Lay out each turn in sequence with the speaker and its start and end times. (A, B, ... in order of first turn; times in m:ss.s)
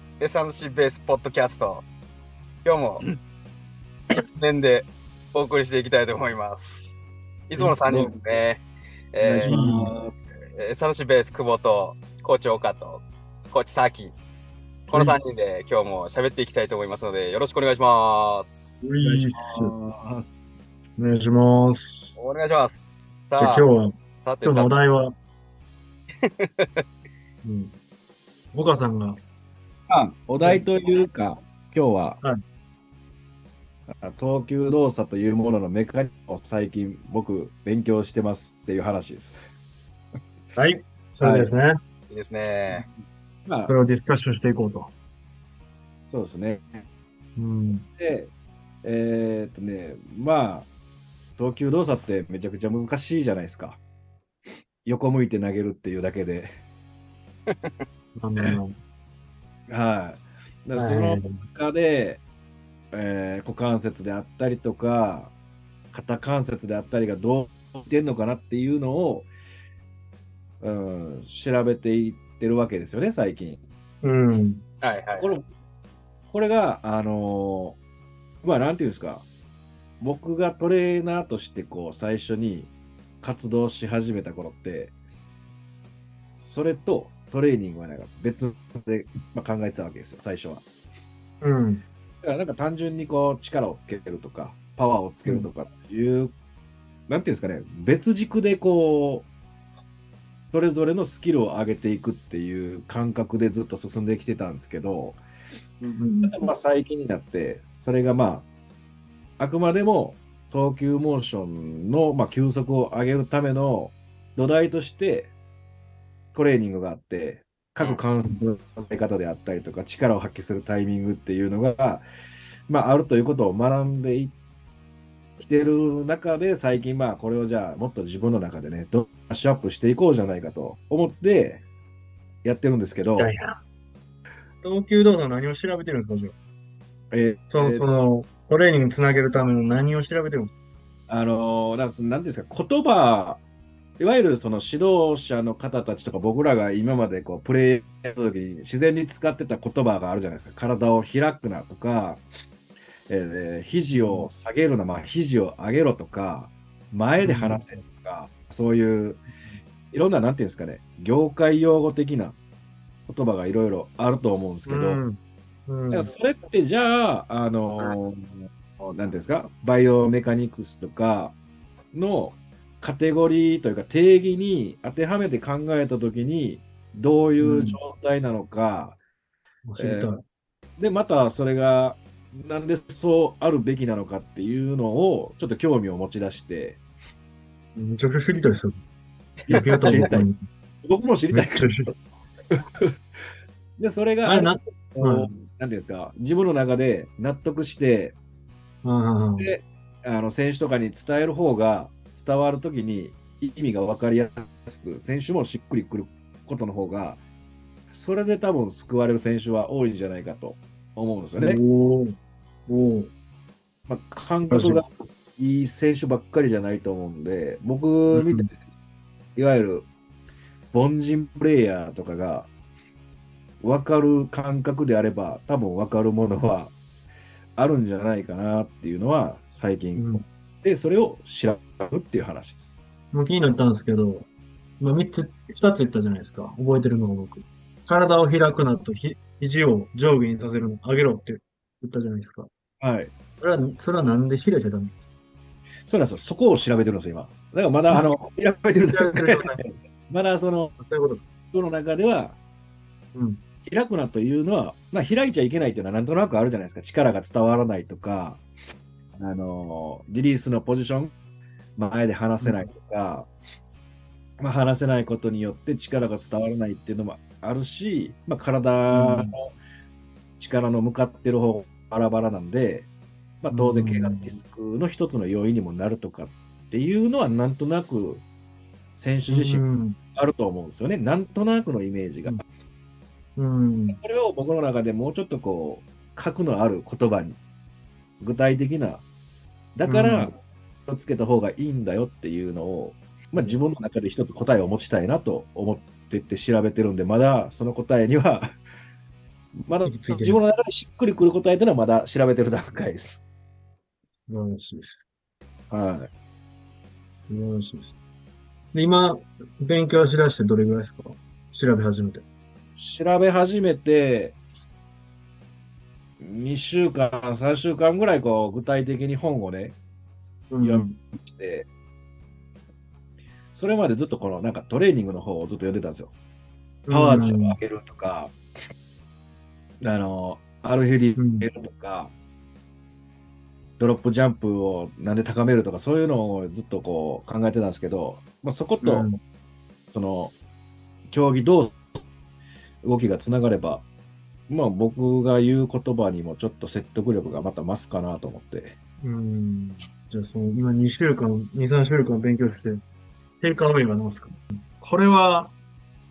0:00.2-0:01.8 A
0:02.6-0:03.0 A
0:04.1-0:09.6 A
0:07.6-0:08.2 B
0:09.3-0:10.2 B
0:09.4-0:09.9 C
0:10.5-0:14.2 A
0:14.9-0:18.9 A
0:14.9-0:15.2 C
0:18.8-0:19.7 C
0:19.0-0:20.6 B
0:21.0-0:22.3 C
0:22.2-0:23.7 A
0:23.4-0:25.1 C
0:24.2-0:24.8 A
0:26.2-0:26.8 A
0:27.4-0:27.8 C
0:28.5-0:29.2 C
0:29.9-0:32.2 B
0:33.9-0:39.4 B
0:40.6-0:41.8 C
0:41.2-0:41.5 B
0:42.1-0:42.8 A
0:43.4-0:43.7 B
0:43.7-0:44.9 C
0:46.1-0:46.8 B
0:47.4-0:47.8 C
0:48.0-0:48.3 B
0:48.8-0:50.7 B
0:51.4-0:53.8 B
0:54.8-0:56.5 B
0:57.5-0:57.8 A
0:58.2-0:58.8 C
0:59.7-1:02.2 B
1:00.8-1:01.4 C
1:02.9-1:05.3 B
1:05.9-1:09.3 B
1:10.6-1:13.6 B
1:14.0-1:14.6 C
1:14.8-1:15.3 A
1:15.2-1:15.4 B
1:16.3-1:17.8 B
1:18.4-1:19.2 B
1:20.0-1:24.9 B
1:26.3-1:30.6 B
1:31.4-1:31.8 C
1:32.2-1:36.3 B
1:37.1-1:39.3 B
1:40.5-1:45.2 B
1:45.8-1:46.4 C
1:46.2-1:48.5 B
1:49.4-1:55.3 B
1:56.3-2:02.0 B
1:57.8-1:58.0 A
2:02.7-2:04.3 B
2:05.4-2:11.6 B
2:12.4-2:13.3 B
2:13.1-2:13.6 C
2:14.6-2:16.3 C
2:17.1-2:17.9 B
2:17.5-2:20.5 C
2:21.1-2:23.4 B
2:24.0-2:32.2 B
2:33.1-2:39.2 B
2:33.9-2:34.3 C
2:37.2-2:37.6 C
2:39.9-2:42.4 B
2:43.1-2:45.0 B
2:44.6-2:46.1 C
2:45.9-2:51.4 B
2:51.9-2:59.0 B
2:57.4-2:57.8 C
2:59.6-3:00.2 C
2:59.8-3:00.1 B
3:00.8-3:06.8 B
3:07.8-3:08.7 C
3:09.5-3:10.2 B
3:09.5-3:10.4 C
3:09.5-3:10.1 A
3:10.8-3:11.9 B
3:11.3-3:11.9 C
3:13.8-3:18.2 B
3:14.2-3:15.3 C
3:18.8-3:19.5 C
3:19.4-3:27.2 B
3:27.9-3:31.6 B
3:31.4-3:32.1 C
3:32.7-3:33.1 C
3:33.9-3:38.5 B
3:34.5-3:34.8 C
3:38.1-3:38.5 C
3:39.4-3:39.9 B
3:40.7-3:42.5 B
3:43.6-3:46.7 B
3:47.6-3:52.8 B
3:49.9-3:50.2 C
3:53.1-3:54.3 C
3:54.8-4:02.5 C
4:02.8-4:03.1 B
4:03.4-4:05.0 C
4:05.9-4:10.7 B
4:08.8-4:09.7 C
4:10.7-4:11.2 C
4:11.5-4:12.4 B
4:13.1-4:13.4 C
4:13.6-4:18.4 B
4:19.1-4:21.1 B
4:21.8-4:23.3 B
4:22.4-4:22.7 C
4:24.4-4:29.5 B
4:28.9-4:29.3 C
4:30.4-4:32.9 B
4:33.4-4:38.2 B
4:33.5-4:34.4 C
4:39.0-4:39.6 B
4:39.3-4:40.0 C
4:40.1-4:42.4 B
4:43.4-4:44.0 C
4:43.9-4:47.4 B
4:48.2-4:49.0 B
4:49.8-4:58.5 B
4:49.8-4:50.3 C
4:53.3-4:53.6 C
4:59.6-5:03.2 B
4:59.8-5:00.4 C
5:04.3-5:05.0 C
5:05.7-5:06.1 B
5:07.2-5:07.9 C
5:08.7-5:12.2 C
5:12.8-5:14.4 B
5:16.2-5:19.8 B
5:20.5-5:21.0 C
5:20.6-5:21.7 B
5:23.5-5:26.1 B
5:26.8-5:27.6 C
5:26.9-5:28.3 B
5:29.8-5:32.1 B
5:31.1-5:31.5 C
5:33.8-5:39.1 B
5:38.8-5:39.2 C
5:39.9-5:40.3 B
5:41.1-5:41.9 B
5:42.8-5:43.8 B
5:44.5-5:48.7 B
5:49.0-5:52.8 C
5:53.4-5:55.5 C